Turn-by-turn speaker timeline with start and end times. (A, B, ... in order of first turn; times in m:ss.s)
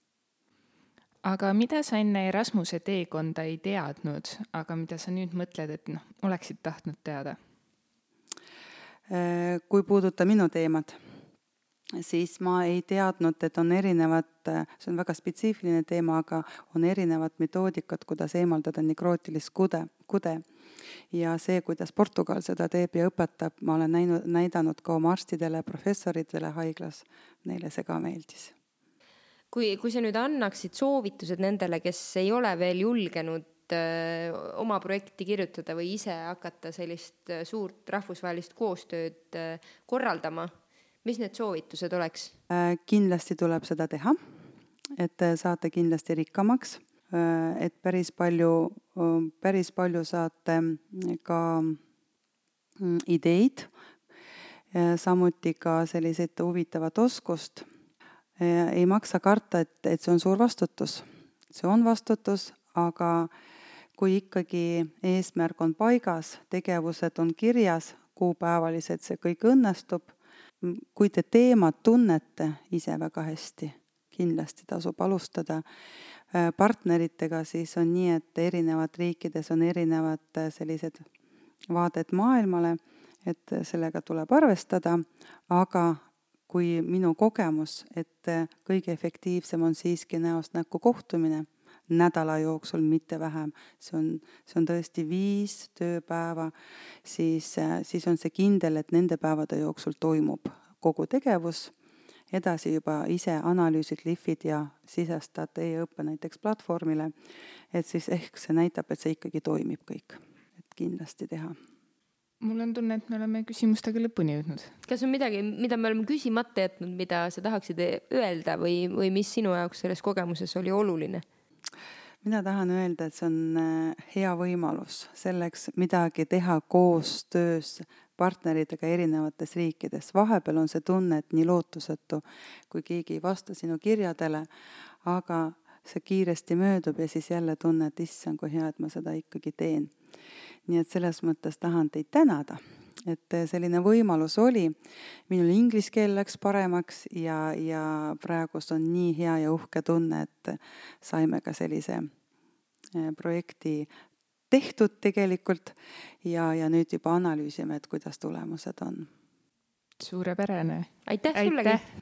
0:01.2-0:07.4 A
0:09.1-0:11.0 B
0:12.0-0:20.4 B
0:21.1-0:28.5 B
0:29.5-0:40.5 C
0:41.0-0:42.4 C
0:42.5-0:44.2 B
0:45.0-0:51.8 B
0:52.8-0:53.7 B
0:54.7-0:57.7 B
0:58.4-1:03.3 B
1:04.0-1:15.6 B
1:16.3-1:21.1 B
1:21.7-1:36.5 B
1:37.0-1:41.7 B
1:42.3-1:47.1 B
1:47.7-1:51.6 B
1:52.4-1:54.7 A
1:54.9-2:01.2 C
2:02.2-2:14.5 B
2:15.0-2:19.9 B
2:20.7-2:24.8 B
2:25.3-2:32.1 B
2:32.9-2:33.9 B
2:34.5-2:39.1 B
2:40.0-2:41.9 A
2:41.1-2:41.8 C